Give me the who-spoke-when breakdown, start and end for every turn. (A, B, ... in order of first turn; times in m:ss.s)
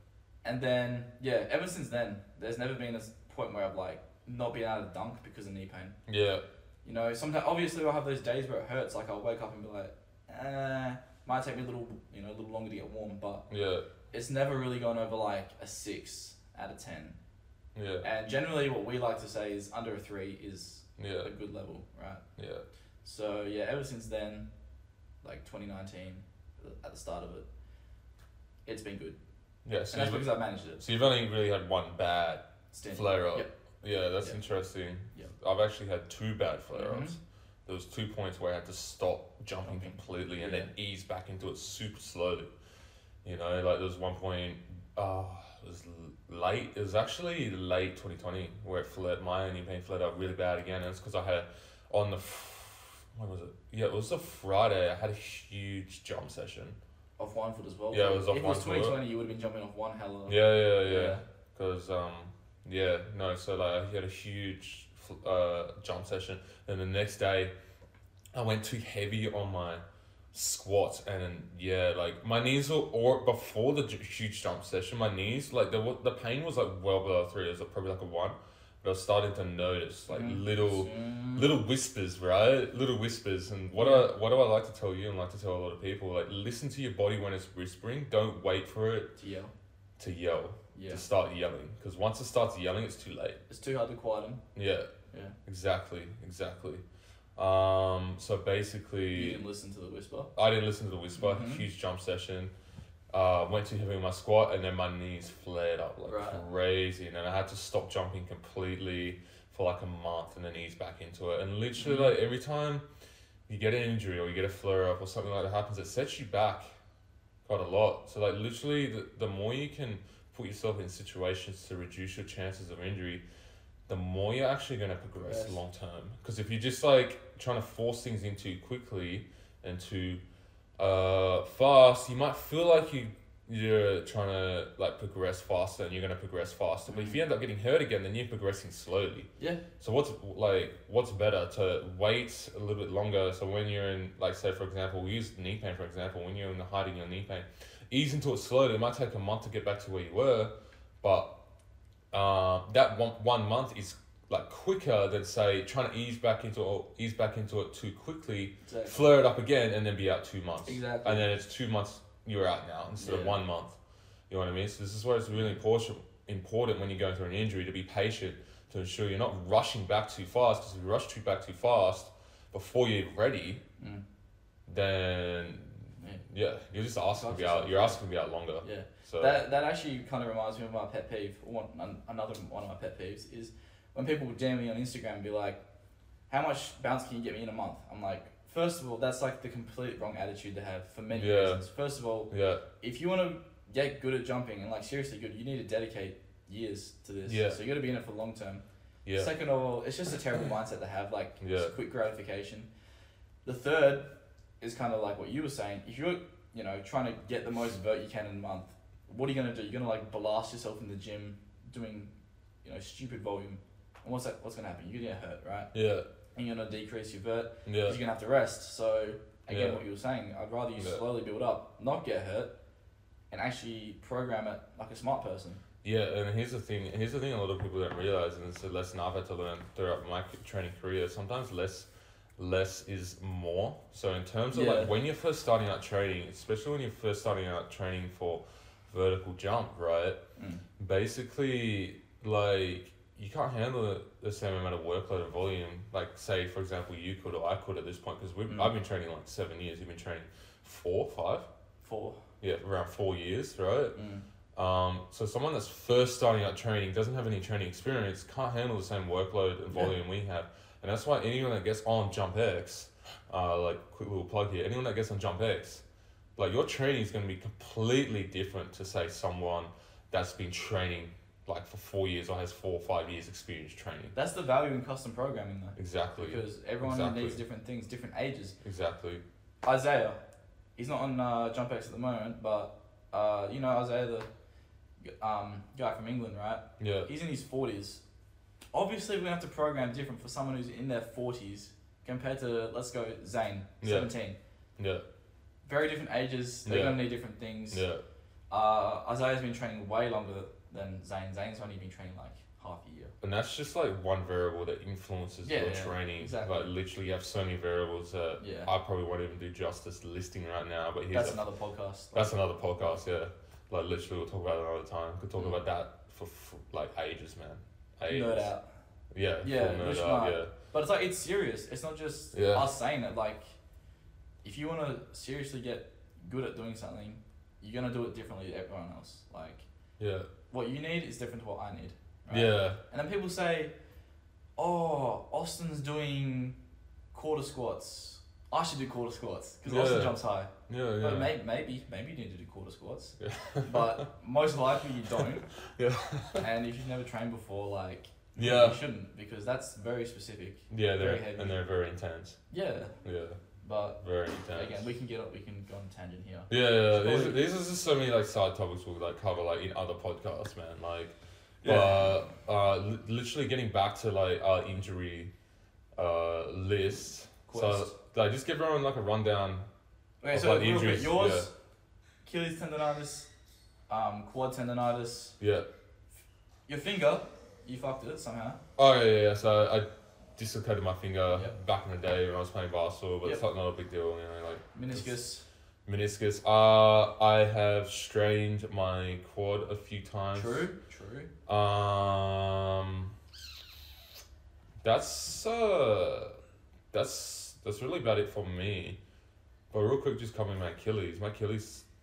0:00.4-0:06.0 A
0:06.1-0:06.4 B
0:06.8-0:13.4 A
0:13.5-0:13.9 B
0:14.1-0:17.2 A
0:17.7-0:18.1 B
0:18.0-0:22.2 A
0:21.0-0:21.3 B
0:22.4-0:22.6 B
0:23.0-0:24.5 A
0:25.2-0:27.4 A
0:28.6-0:29.2 A
0:29.6-0:42.5 B
0:29.9-0:30.8 A
0:32.7-0:33.5 A
0:36.7-0:37.2 A
0:39.6-0:40.7 A
0:43.2-0:56.8 B
0:57.2-1:01.2 A
0:57.9-0:59.0 B
1:00.3-1:07.5 B
1:08.3-1:29.1 B
1:20.1-1:21.5 A
1:23.8-1:24.1 A
1:29.2-1:29.5 A
1:30.0-1:33.4 B
1:30.7-1:31.0 A
1:33.5-1:34.4 A
1:34.5-1:34.9 B
1:35.1-1:35.4 A
1:35.4-1:36.8 B
1:37.4-1:39.4 B
1:39.1-1:40.3 A
1:40.4-1:42.5 B
1:41.2-1:41.6 A
1:43.1-1:52.8 B
1:46.0-1:46.4 A
1:51.8-1:52.2 A
1:53.5-1:56.7 B
1:57.4-2:03.2 B
2:03.9-2:10.2 B
2:05.2-2:05.6 A
2:10.8-2:19.3 B
2:16.9-2:17.2 A
2:19.4-2:19.6 A
2:19.8-2:31.3 B
2:32.1-2:43.8 B
2:38.6-2:39.0 A
2:40.6-2:41.3 A
2:43.0-2:43.4 A
2:44.3-2:53.6 B
2:54.6-2:59.4 B
2:56.0-2:56.2 A
2:57.1-2:58.0 A
2:58.6-3:05.6 A
3:06.3-3:22.7 A
3:11.1-3:11.6 B
3:12.3-3:12.6 B
3:17.2-3:17.6 B
3:19.0-3:19.3 B
3:21.4-3:21.7 B
3:23.4-3:32.1 A
3:32.6-3:35.7 A
3:35.7-3:36.1 B
3:36.4-3:42.6 A
3:37.6-3:38.0 B
3:39.5-3:39.8 B
3:40.8-3:41.0 B
3:43.3-3:45.6 A
3:45.8-4:00.2 B
3:54.5-3:54.9 A
4:00.4-4:00.6 A
4:00.8-4:11.5 B
4:08.5-4:08.7 A
4:11.8-4:12.2 A
4:12.4-4:14.0 B
4:13.9-4:14.2 A
4:14.5-4:25.8 B
4:26.4-4:34.1 B
4:34.1-4:38.6 A
4:35.8-4:37.4 B
4:38.6-4:39.2 B
4:39.6-4:40.2 A
4:40.8-4:44.3 A
4:45.0-4:48.0 A
4:46.8-4:47.1 B
4:48.7-4:54.4 A
4:53.8-4:54.1 B
4:54.8-4:55.0 B
4:55.6-4:57.8 A
4:56.6-4:57.1 B
4:57.7-4:58.0 B
4:58.5-5:03.1 A
5:03.2-5:11.4 B
5:05.4-5:06.7 A
5:08.4-5:08.7 A
5:11.1-5:13.0 A
5:12.1-5:18.5 B
5:18.1-5:18.7 A
5:19.1-5:20.5 B
5:19.4-5:23.5 A
5:22.3-5:22.7 B
5:24.4-5:29.6 A
5:30.0-5:30.3 B
5:30.5-5:33.7 A
5:32.3-5:32.8 B
5:34.6-5:36.6 A
5:37.1-5:40.5 A
5:39.6-5:41.3 B
5:41.0-5:45.5 A
5:43.2-5:44.0 B
5:45.2-5:46.4 B
5:46.4-5:51.6 A
5:48.4-5:48.8 B
5:50.7-5:52.4 B
5:52.5-5:52.9 A
5:53.0-5:53.4 B
5:53.6-5:54.0 A
5:54.0-5:54.8 B
5:54.5-5:57.4 A
5:56.5-6:05.3 B
6:01.6-6:02.2 A
6:06.0-6:09.6 B
6:07.5-6:08.0 A
6:10.2-6:11.5 A
6:10.3-6:11.5 B
6:12.2-6:13.3 A
6:13.9-6:15.4 A
6:15.4-6:15.6 B
6:16.7-6:18.6 A
6:18.8-6:25.2 B
6:24.7-6:25.4 A
6:25.8-6:30.7 B
6:30.3-6:31.3 A
6:31.5-6:33.1 B
6:34.8-6:36.4 B
6:36.9-6:39.0 B
6:39.7-6:41.8 B